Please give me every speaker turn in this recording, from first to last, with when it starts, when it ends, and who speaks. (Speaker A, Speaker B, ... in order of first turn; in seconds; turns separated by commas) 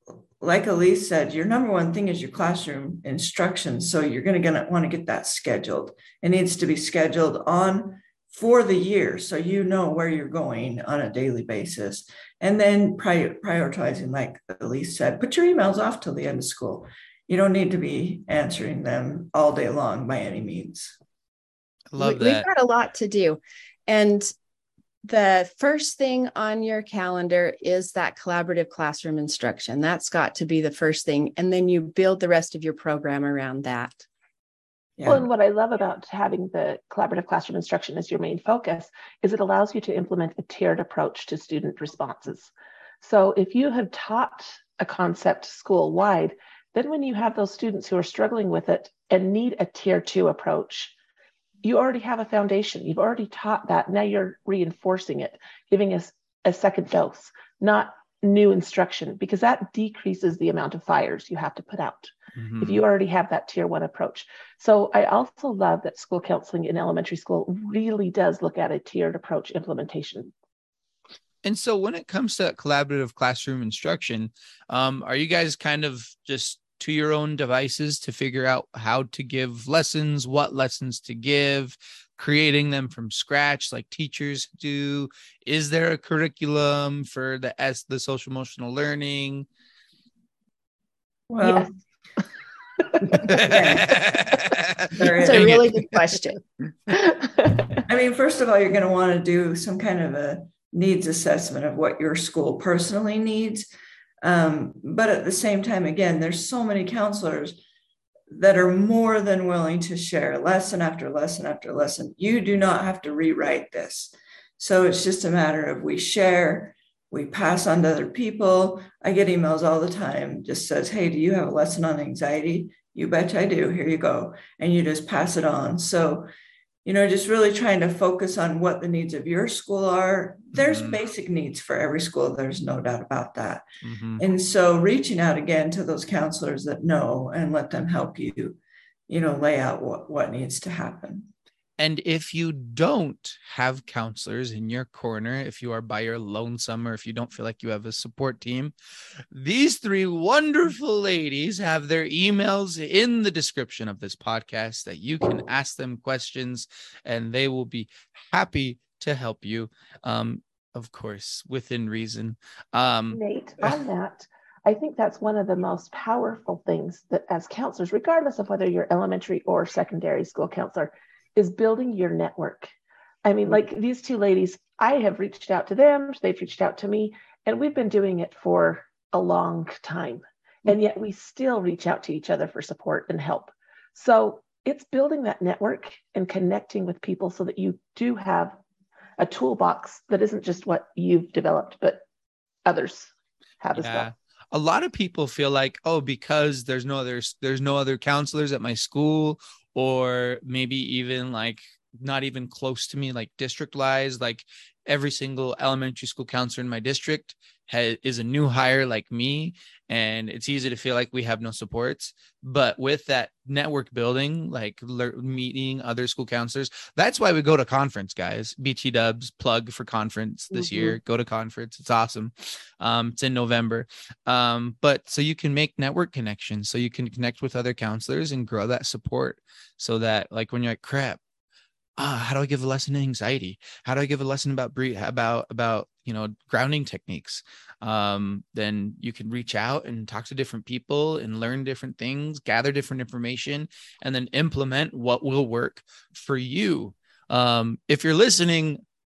Speaker A: 0.4-21.0, Speaker B: 21.9-22.5, Speaker C: 22.0-24.3, Speaker C: 25.0-34.0, Speaker A: 35.0-35.3, Speaker D: 35.0-42.5, Speaker D: 43.0-50.9, Speaker D: 51.6-70.3, Speaker B: 62.3-62.8, Speaker B: 71.4-89.5, Speaker A: 91.3-91.7, Speaker D: 91.4-91.7, Speaker A: 93.1-94.1, Speaker B: 93.1-95.8, Speaker A: 94.9-95.6, Speaker C: 95.0-96.4, Speaker D: 96.9-97.8, Speaker A: 97.9-103.7, Speaker A: 104.2-107.6, Speaker A: 108.3-126.3, Speaker A: 126.8-133.6, Speaker B: 130.5-131.0, Speaker B: 133.8-134.2, Speaker A: 134.2-138.6, Speaker A: 139.1-141.3, Speaker B: 141.8-148.7, Speaker B: 149.3-163.8, Speaker D: 163.1-172.7, Speaker D: 173.2-188.6, Speaker D: 189.2-192.0, Speaker D: 192.6-194.1, Speaker B: 193.8-231.2, Speaker C: 220.5-221.0, Speaker B: 232.0-248.8